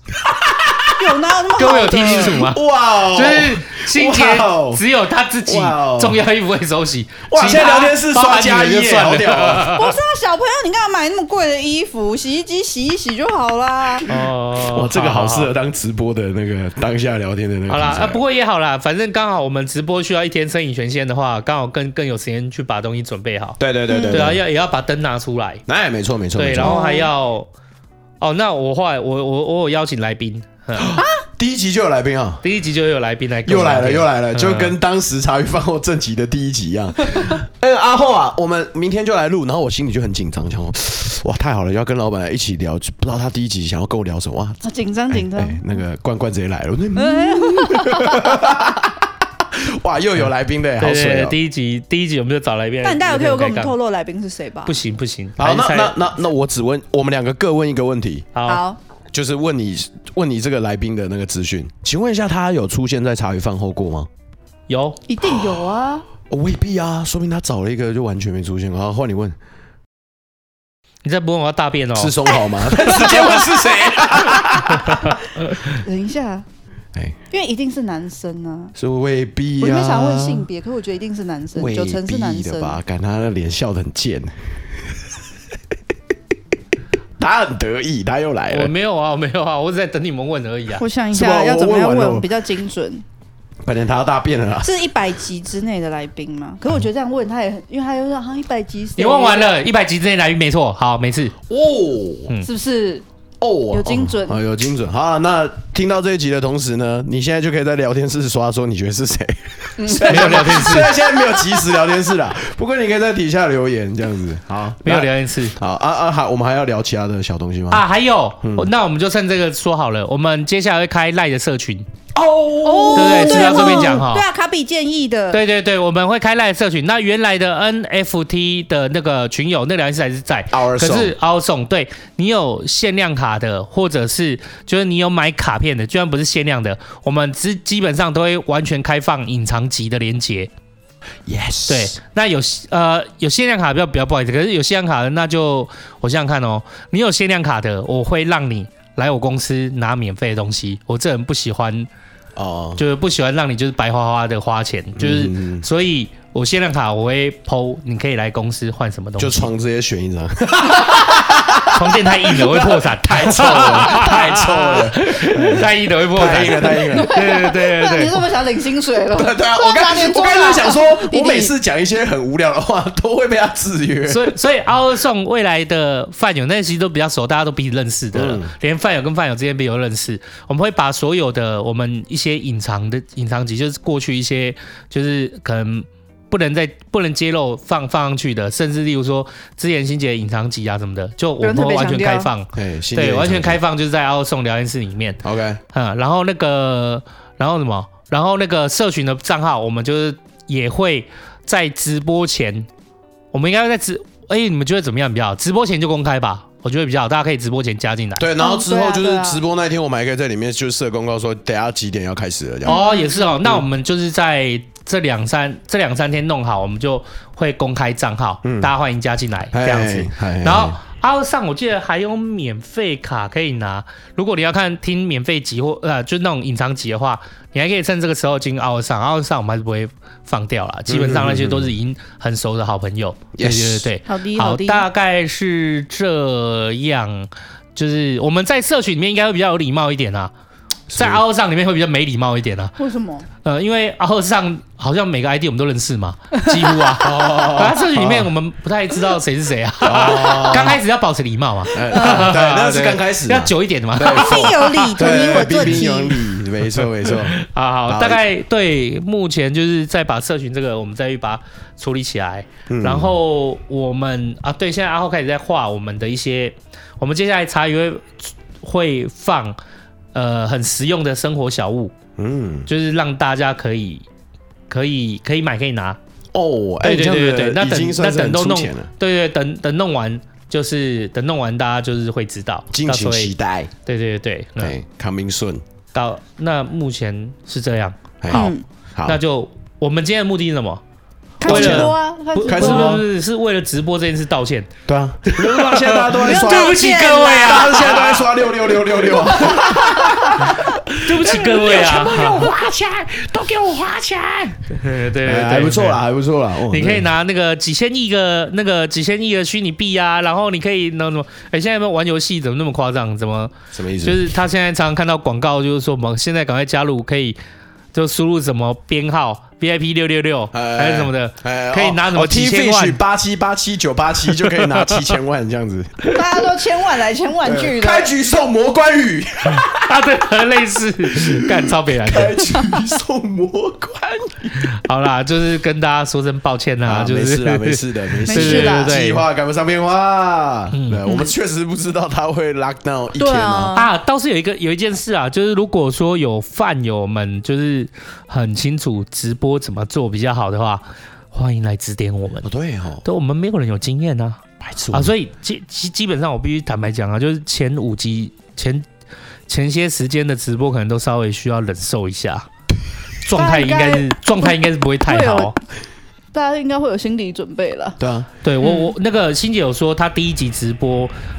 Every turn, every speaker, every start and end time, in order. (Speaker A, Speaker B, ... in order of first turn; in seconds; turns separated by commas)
Speaker A: 0.3-4.8, Speaker B: 0.9-2.5, Speaker C: 1.6-9.9, Speaker A: 5.4-6.2, Speaker A: 7.3-9.7, Speaker B: 9.7-14.1, Speaker C: 14.1-15.5, Speaker A: 14.7-18.2, Speaker C: 17.7-23.6, Speaker A: 23.6-24.4, Speaker B: 23.9-24.3, Speaker C: 24.1-25.6, Speaker A: 25.7-26.8, Speaker C: 26.3-27.5, Speaker B: 26.6-27.1, Speaker C: 28.2-30.9, Speaker A: 30.8-32.4, Speaker C: 32.4-34.8, Speaker A: 33.4-49.0, Speaker B: 44.6-45.6, Speaker B: 47.0-48.4, Speaker A: 49.6-51.4, Speaker C: 50.8-53.8, Speaker B: 52.8-54.8, Speaker C: 54.6-56.0, Speaker A: 55.4-58.3, Speaker C: 58.3-58.6, Speaker B: 58.4-58.8, Speaker A: 59.1-64.1, Speaker C: 64.7-65.0, Speaker B: 65.1-66.0, Speaker A: 66.3-69.3, Speaker C: 71.0-72.2, Speaker A: 72.0-75.2, Speaker B: 72.7-74.5, Speaker C: 72.7-73.2, Speaker C: 74.8-75.1, Speaker B: 75.8-76.4, Speaker B: 77.3-78.7, Speaker A: 78.8-80.5, Speaker B: 79.6-82.8, Speaker A: 81.5-85.0, Speaker A: 87.2-88.7, Speaker C: 88.5-90.8, Speaker B: 90.8-93.0, Speaker A: 91.1-92.3, Speaker A: 93.6-94.7, Speaker B: 94.6-99.6, Speaker C: 99.0-101.4, Speaker A: 101.5-102.3, Speaker B: 102.4-103.0, Speaker A: 103.4-117.8, Speaker B: 103.7-104.4, Speaker B: 109.8-111.6, Speaker C: 110.0-111.0, Speaker C: 114.8-115.5, Speaker C: 117.7-121.9, Speaker A: 118.4-118.7, Speaker A: 122.1-124.0, Speaker B: 122.6-125.4, Speaker C: 122.9-124.2, Speaker C: 125.3-140.5, Speaker A: 130.5-131.1, Speaker A: 141.3-141.9, Speaker C: 141.7-151.9, Speaker A: 152.3-152.8, Speaker C: 152.8-159.5, Speaker A: 155.0-155.7, Speaker A: 159.2-167.2, Speaker C: 161.6-168.2, Speaker B: 166.6-171.6, Speaker A: 169.1-174.3, Speaker C: 174.1-195.2, Speaker A: 178.1-178.5, Speaker B: 191.4-192.3, Speaker A: 192.5-193.6, Speaker A: 195.2-195.6, Speaker C: 195.7-202.7, Speaker C: 203.3-208.3, Speaker A: 208.2-212.8, Speaker B: 208.4-209.4, Speaker B: 212.6-213.4, Speaker C: 212.7-240.3, Speaker A: 218.4-218.7, Speaker A: 219.5-220.8, Speaker A: 230.9-231.7, Speaker A: 233.3-233.9, Speaker B: 234.1-234.9, Speaker A: 240.9-241.2, Speaker C: 240.9-242.7, Speaker B: 242.8-243.3, Speaker C: 243.4-255.8, Speaker A: 247.0-248.3, Speaker A: 249.8-250.8, Speaker A: 251.7-257.3, Speaker B: 251.9-252.3, Speaker B: 254.0-256.3, Speaker C: 256.7-269.6, Speaker A: 257.9-258.2, Speaker A: 262.7-263.1, Speaker C: 270.1-271.9, Speaker A: 272.2-272.7, Speaker C: 272.7-274.1, Speaker C: 274.7-276.0, Speaker A: 276.3-278.9, Speaker C: 276.8-283.3, Speaker A: 282.7-283.7, Speaker C: 283.9-284.8, Speaker A: 284.6-285.6, Speaker C: 285.9-288.5, Speaker A: 288.2-289.2, Speaker B: 288.3-288.6, Speaker C: 289.0-290.8, Speaker B: 291.4-293.0, Speaker C: 291.4-294.7, Speaker A: 291.4-291.9, Speaker A: 292.4-293.0, Speaker A: 294.9-304.6, Speaker C: 295.2-298.4, Speaker B: 296.1-298.0, Speaker B: 299.2-300.4, Speaker C: 300.4-302.5, Speaker C: 304.7-306.0, Speaker A: 305.2-307.1, Speaker C: 306.6-317.4, Speaker A: 313.7-314.2, Speaker C: 317.9-323.0, Speaker A: 320.5-326.3, Speaker C: 324.3-325.1, Speaker B: 326.1-328.1, Speaker A: 327.4-330.1, Speaker C: 329.4-332.4, Speaker A: 331.1-334.7, Speaker B: 332.5-332.9, Speaker C: 334.6-339.2, Speaker A: 336.8-343.7, Speaker B: 338.3-339.0, Speaker C: 340.7-341.0, Speaker B: 341.1-341.3, Speaker B: 343.1-343.9, Speaker C: 343.7-352.5, Speaker A: 352.4-353.0, Speaker C: 353.0-354.4, Speaker A: 354.6-355.1, Speaker C: 354.9-358.8, Speaker C: 359.5-362.5, Speaker C: 363.2-365.6, Speaker B: 363.3-365.5, Speaker B: 366.3-368.0, Speaker A: 368.0-368.3, Speaker C: 368.4-371.1, Speaker B: 368.6-368.9